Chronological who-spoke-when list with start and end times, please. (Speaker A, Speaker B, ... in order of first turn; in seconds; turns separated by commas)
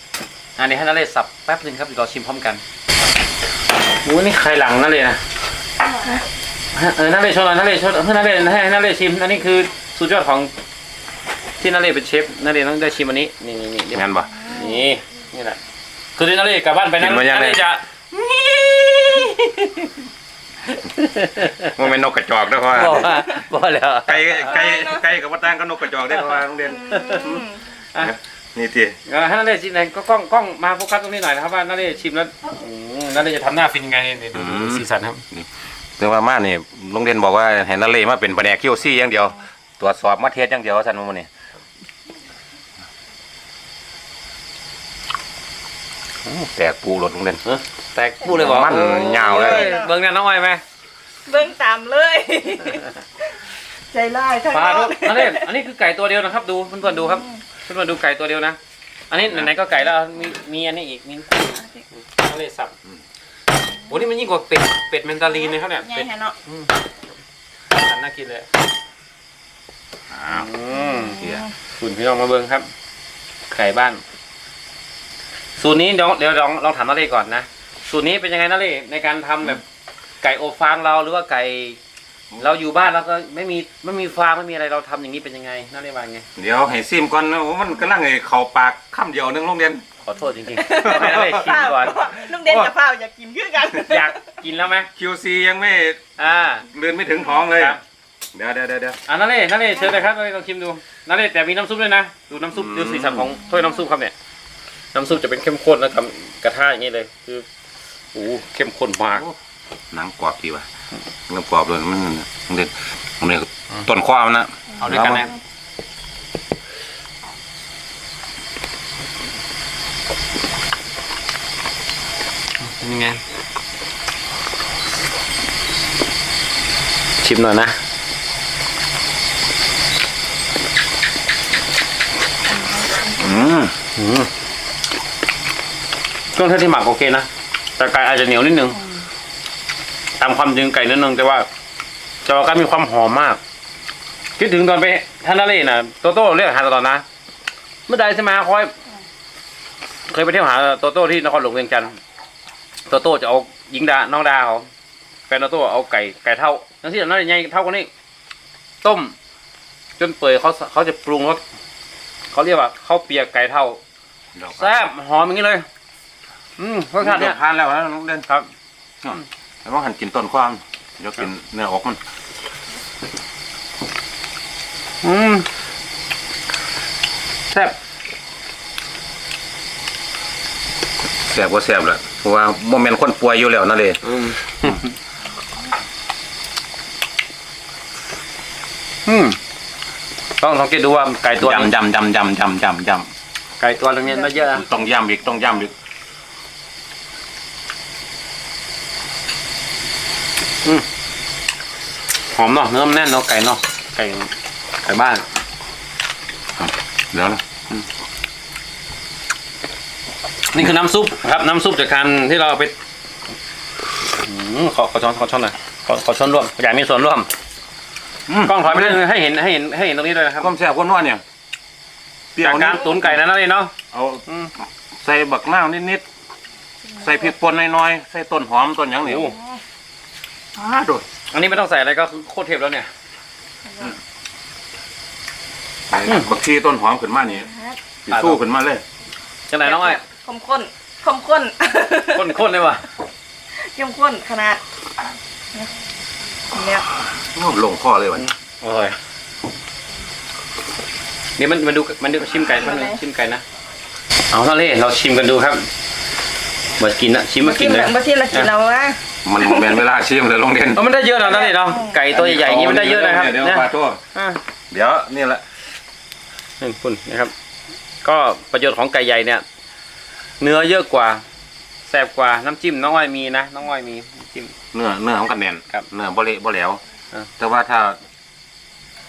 Speaker A: 0.6-2.6, Speaker A: 4.0-5.2, Speaker A: 6.7-10.5, Speaker A: 11.6-15.6, Speaker B: 13.9-14.4, Speaker A: 16.2-19.9, Speaker B: 17.0-17.6, Speaker A: 20.7-21.7, Speaker B: 21.7-23.3, Speaker A: 22.7-24.3, Speaker B: 24.1-29.0, Speaker C: 24.4-25.0, Speaker A: 26.1-27.2, Speaker C: 26.9-27.6, Speaker A: 29.1-35.2, Speaker B: 34.4-41.3, Speaker B: 46.2-47.4, Speaker A: 47.5-50.6, Speaker B: 48.3-49.7, Speaker C: 48.4-49.9, Speaker C: 51.3-53.3, Speaker C: 53.9-55.5, Speaker A: 54.5-58.6, Speaker C: 57.0-57.4, Speaker A: 59.1-62.7, Speaker A: 63.9-66.7, Speaker C: 65.5-66.3, Speaker A: 67.7-68.5, Speaker B: 70.1-70.5, Speaker A: 70.3-71.2, Speaker C: 70.7-71.5, Speaker B: 71.2-71.5, Speaker A: 71.8-72.7, Speaker A: 73.5-74.0, Speaker A: 75.6-79.6, Speaker A: 80.2-81.8, Speaker A: 82.4-86.2, Speaker B: 86.4-89.8, Speaker A: 90.0-92.0, Speaker C: 90.6-94.2, Speaker B: 90.8-91.6, Speaker B: 92.3-92.7, Speaker A: 93.8-94.9, Speaker B: 95.0-96.0, Speaker A: 96.2-96.7, Speaker B: 96.6-97.8, Speaker A: 97.5-97.8, Speaker B: 98.3-99.0, Speaker A: 99.1-104.1, Speaker B: 102.5-103.3, Speaker A: 104.9-107.5, Speaker A: 108.1-109.3, Speaker B: 109.9-110.7, Speaker B: 111.3-115.3, Speaker A: 114.8-115.4, Speaker A: 122.6-123.2, Speaker A: 127.2-127.8, Speaker C: 132.8-133.0, Speaker B: 133.2-133.7, Speaker A: 134.0-134.3, Speaker A: 136.3-138.8, Speaker A: 140.2-141.5, Speaker A: 142.3-143.4, Speaker A: 144.4-147.0, Speaker A: 147.9-148.7, Speaker A: 150.1-152.0, Speaker A: 152.9-154.7, Speaker A: 155.3-157.9, Speaker A: 158.8-159.2, Speaker A: 160.0-161.4, Speaker A: 162.3-163.8, Speaker B: 164.3-164.7, Speaker A: 164.5-165.7, Speaker A: 166.6-167.4, Speaker B: 167.0-168.3, Speaker B: 169.0-172.0, Speaker A: 175.0-175.5, Speaker A: 177.5-177.8, Speaker B: 181.3-184.0, Speaker A: 184.0-184.9, Speaker A: 189.1-189.4, Speaker A: 190.4-191.7, Speaker B: 191.4-193.1, Speaker A: 193.6-194.7, Speaker C: 194.2-194.8, Speaker B: 194.5-195.7, Speaker A: 202.3-204.3, Speaker A: 204.8-205.2, Speaker B: 206.6-207.4, Speaker A: 210.5-212.7, Speaker A: 214.2-217.3, Speaker B: 218.3-219.0, Speaker A: 218.4-220.5, Speaker B: 220.4-221.2, Speaker B: 222.3-223.2, Speaker A: 222.4-223.7, Speaker B: 223.9-224.2, Speaker B: 225.0-226.0, Speaker B: 227.0-229.3, Speaker A: 229.1-229.3, Speaker C: 229.1-229.6, Speaker B: 230.6-231.0, Speaker A: 231.3-232.9, Speaker C: 233.7-234.0, Speaker B: 235.9-237.5, Speaker C: 237.3-237.8, Speaker B: 238.1-238.8, Speaker A: 238.1-238.4, Speaker A: 239.5-240.0, Speaker C: 239.6-242.4, Speaker A: 242.1-242.8, Speaker C: 243.6-244.6, Speaker C: 246.5-246.9, Speaker B: 247.3-248.3, Speaker A: 248.2-249.0, Speaker A: 251.4-253.4, Speaker C: 252.5-253.0, Speaker A: 254.3-255.7, Speaker A: 256.8-258.5, Speaker C: 257.4-259.8, Speaker B: 259.2-260.8, Speaker A: 260.7-264.4, Speaker C: 261.2-262.0, Speaker B: 262.1-264.0, Speaker B: 264.7-265.4, Speaker A: 266.6-267.3, Speaker A: 268.0-269.4, Speaker A: 270.4-271.2, Speaker A: 271.9-274.5, Speaker B: 274.7-276.8, Speaker B: 277.4-278.0